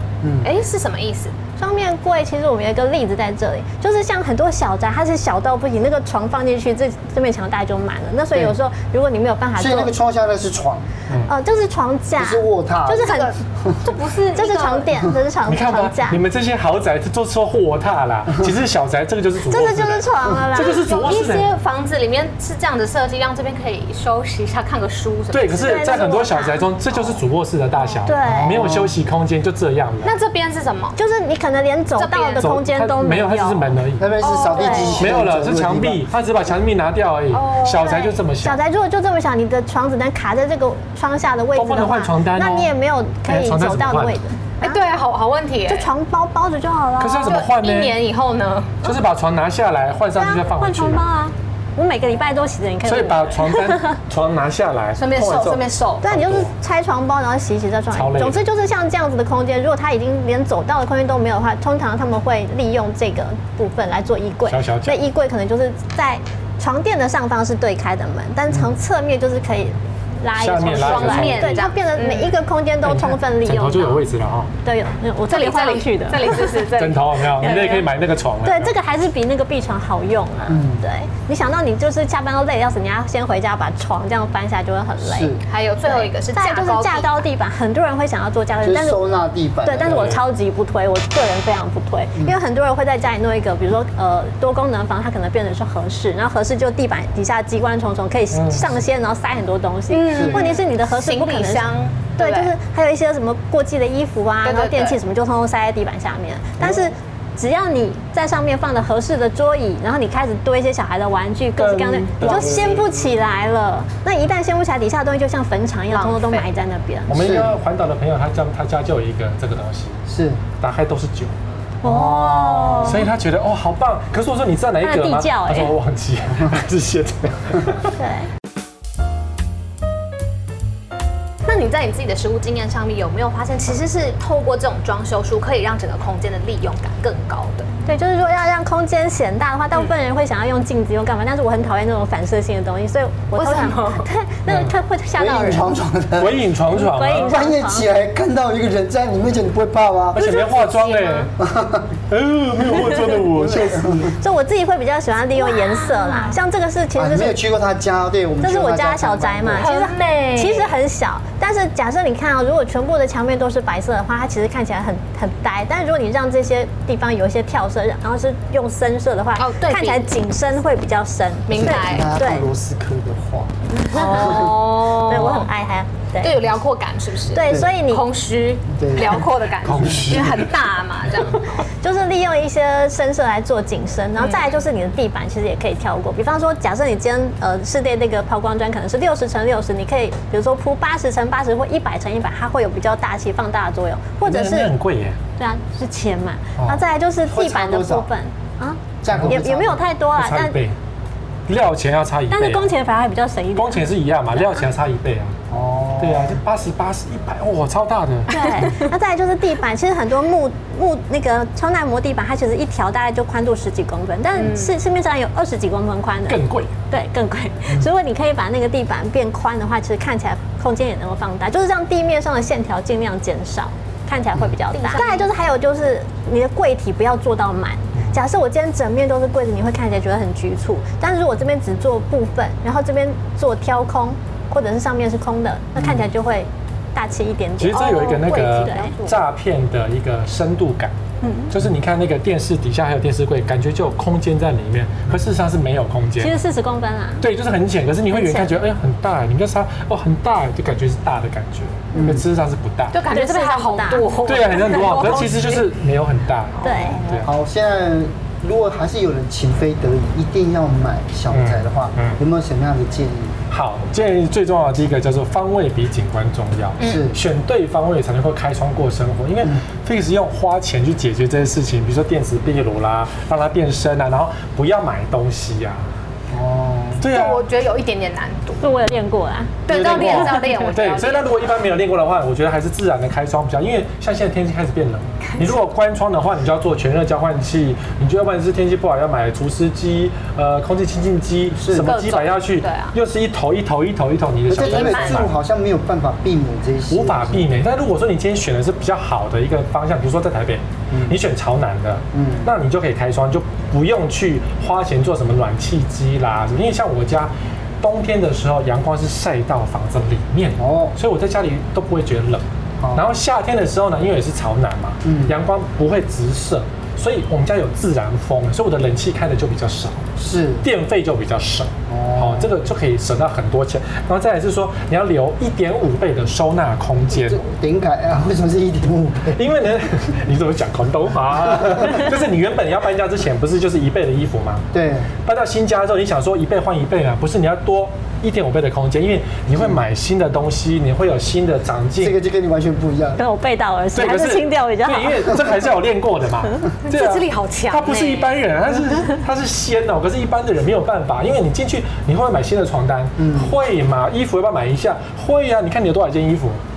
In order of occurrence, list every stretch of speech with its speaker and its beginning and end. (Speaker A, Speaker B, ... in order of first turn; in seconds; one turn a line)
Speaker A: 0.2-0.5
Speaker B: 0.4-1.4
Speaker C: 1.6-9.9
Speaker A: 9.6-10.9
Speaker C: 11.2-13.3
Speaker A: 12.2-13.8
Speaker B: 13.0-14.9
Speaker C: 14.3-16.2
Speaker D: 15.5-21.5
Speaker C: 19.5-21.1
Speaker B: 20.6-25.9
Speaker D: 25.3-30.1
Speaker C: 25.6-26.7
Speaker B: 27.7-28.1
Speaker C: 28.1-28.8
Speaker A: 28.3-28.9
Speaker B: 30.0-31.0
Speaker C: 31.0-33.8
Speaker B: 32.0-32.5
Speaker D: 32.4-34.2
Speaker A: 34.0-36.0
Speaker B: 34.2-35.2
Speaker C: 34.6-35.0
Speaker D: 35.0-38.6
Speaker B: 37.3-38.1
Speaker C: 37.8-44.8
Speaker D: 41.5-42.7
Speaker D: 43.2-44.2
Speaker B: 44.6-45.9
Speaker C: 45.7-47.4
Speaker D: 47.0-48.0
Speaker B: 47.2-48.9
Speaker D: 48.8-51.1
Speaker C: 50.2-54.0
Speaker D: 52.9-56.5
Speaker B: 55.0-56.0
Speaker C: 56.0-74.1
Speaker D: 57.9-58.4
Speaker D: 64.5-65.0
Speaker D: 70.3-71.6
Speaker B: 70.6-72.4
Speaker D: 72.8-74.5
Speaker C: 74.6-76.6
Speaker B: 75.3-77.7
Speaker D: 76.8-78.8
Speaker C: 77.4-77.9
Speaker C: 78.4-89.0
Speaker A: 80.5-80.8
Speaker A: 85.0-85.4
Speaker B: 85.5-87.2
Speaker A: 88.6-90.2
Speaker C: 89.6-117.2
Speaker D: 89.9-90.2
Speaker D: 98.3-98.8
Speaker B: 99.9-102.5
Speaker A: 100.1-100.5
Speaker B: 104.5-105.0
Speaker D: 106.6-106.9
Speaker D: 111.6-112.9
Speaker B: 112.2-112.9
Speaker B: 115.9-116.5
Speaker D: 117.1-121.3
Speaker A: 117.1-117.5
Speaker A: 120.1-120.4
Speaker C: 121.8-123.1
Speaker A: 121.8-122.9
Speaker D: 122.8-128.0
Speaker C: 124.8-125.8
Speaker C: 128.0-128.3
Speaker B: 131.5-137.7
Speaker C: 137.9-145.8
Speaker B: 143.3-144.1
Speaker D: 144.5-144.8
Speaker A: 145.2-146.4
Speaker D: 146.2-147.4
Speaker C: 146.7-147.9
Speaker A: 147.2-150.3
Speaker D: 150.1-151.3
Speaker B: 150.2-151.3
Speaker A: 151.4-152.0
Speaker D: 152.1-154.1
Speaker A: 153.3-154.2
Speaker C: 154.0-157.4
Speaker B: 155.4-156.4
Speaker A: 157.0-159.7
Speaker C: 158.4-172.5
Speaker B: 159.6-160.7
Speaker B: 169.4-170.1
Speaker B: 171.5-172.2
Speaker A: 171.5-173.5
Speaker C: 173.8-176.4
Speaker B: 173.9-175.5
Speaker B: 176.2-181.5
Speaker C: 177.3-178.0
Speaker A: 178.7-179.2
Speaker D: 179.6-180.5
Speaker C: 181.8-194.7
Speaker B: 184.2-184.5
Speaker D: 194.2-195.2
Speaker C: 195.4-200.6
Speaker D: 196.6-196.8
Speaker A: 197.3-198.1
Speaker A: 199.0-199.9
Speaker D: 199.1-199.4
Speaker D: 200.1-200.8
Speaker D: 201.5-202.7
Speaker C: 202.3-204.7
Speaker D: 203.6-205.4
Speaker A: 205.5-206.4
Speaker D: 206.0-208.7
Speaker C: 208.3-238.9
Speaker B: 208.3-208.8
Speaker B: 214.3-214.7
Speaker D: 216.3-216.7
Speaker B: 224.7-225.3
Speaker D: 227.9-228.2
Speaker D: 237.6-240.9
Speaker B: 237.8-239.2
Speaker C: 241.2-241.5
Speaker D: 241.5-246.3
Speaker C: 246.2-247.3
Speaker D: 247.2-253.0
Speaker C: 248.1-248.6
Speaker A: 251.9-252.2
Speaker B: 252.9-255.7
Speaker C: 253.1-254.4
Speaker D: 254.2-257.3
Speaker C: 256.6-257.2
Speaker B: 256.6-257.2
Speaker A: 257.2-263.4
Speaker D: 261.3-262.2
Speaker D: 263.5-275.9
Speaker A: 266.8-267.2
Speaker A: 276.3-277.1
Speaker D: 277.0-277.4
Speaker B: 277.1-278.7
Speaker C: 278.6-280.6
Speaker B: 279.7-281.5
Speaker D: 279.7-295.3
Speaker A: 279.7-280.0
Speaker B: 285.3-285.6
Speaker A: 291.6-291.9
Speaker B: 291.8-293.0
Speaker A: 294.5-297.5
Speaker B: 294.6-295.3
Speaker D: 296.9-320.1
Speaker A: 300.9-301.2
Speaker A: 302.1-302.5
Speaker A: 310.6-310.9
Speaker A: 312.8-313.1
Speaker A: 315.1-315.4
Speaker A: 320.2-320.6
Speaker D: 320.6-327.4
Speaker A: 321.9-322.5
Speaker A: 327.1-329.4
Speaker D: 329.3-334.7
Speaker A: 334.7-335.1
Speaker D: 335.2-342.1
Speaker A: 342.0-343.2
Speaker C: 343.2-345.4
Speaker D: 343.9-356.6
Speaker B: 346.9-348.5
Speaker A: 353.2-353.5